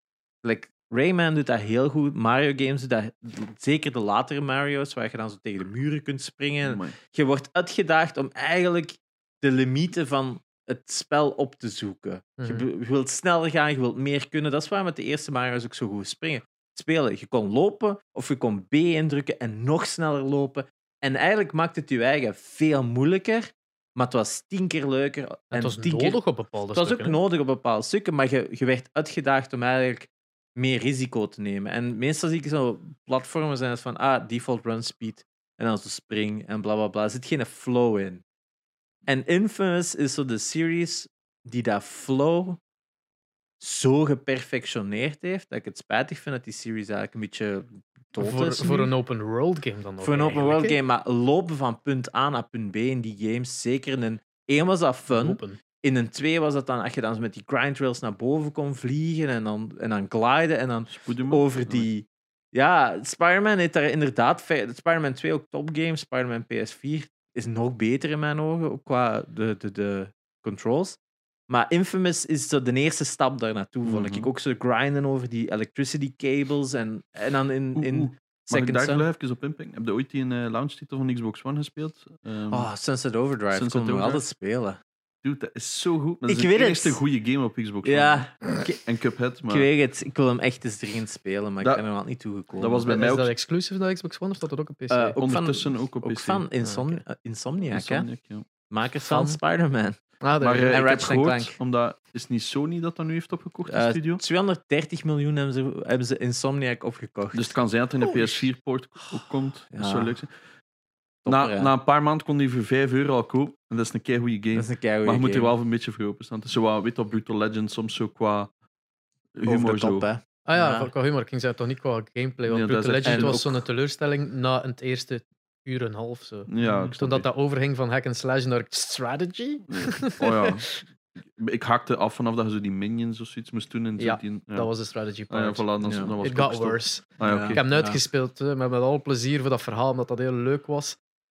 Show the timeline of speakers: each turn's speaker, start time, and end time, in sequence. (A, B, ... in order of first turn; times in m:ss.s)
0:00.4-0:26.2 A
0:06.6-0:07.0 B
0:12.4-0:12.6 C
0:25.5-0:27.2 C
0:26.7-0:38.2 A
0:39.1-0:42.6 A
0:43.6-0:48.9 A
0:48.2-0:50.8 C
0:50.0-1:19.1 A
0:55.1-0:55.6 C
1:00.9-1:01.9 B
1:13.8-1:14.3 B
1:17.8-1:22.7 B
1:22.5-1:24.8 A
1:23.5-1:24.2 B
1:25.2-1:28.3 B
1:26.3-1:27.0 A
1:27.8-1:28.8 A
1:28.8-1:29.7 B
1:29.5-1:32.9 A
1:32.6-1:33.3 B
1:32.9-1:35.2 C
1:34.9-1:38.1 A
1:35.2-1:36.4 B
1:36.6-1:37.0 C
1:37.7-1:38.4 B
1:38.7-1:40.0 A
1:39.1-1:39.4 C
1:40.2-1:40.8 C
1:40.4-1:44.2 B
1:40.7-1:41.6 A
1:43.7-1:47.6 A
1:47.3-1:50.3 B
1:48.1-1:48.4 A
1:49.7-1:50.2 A
1:51.2-1:51.7 A
1:51.3-1:58.5 B
1:54.6-1:55.5 A
1:59.4-2:00.1 B
1:59.5-2:00.9 A
2:00.5-2:10.7 C
2:02.5-2:03.4 B
2:03.0-2:03.7 A
2:06.5-2:07.3 B
2:06.6-2:06.9 A
2:09.7-2:14.7 B
2:14.0-2:21.0 C
2:15.3-2:17.6 B
2:15.8-2:16.1 A
2:17.2-2:18.0 A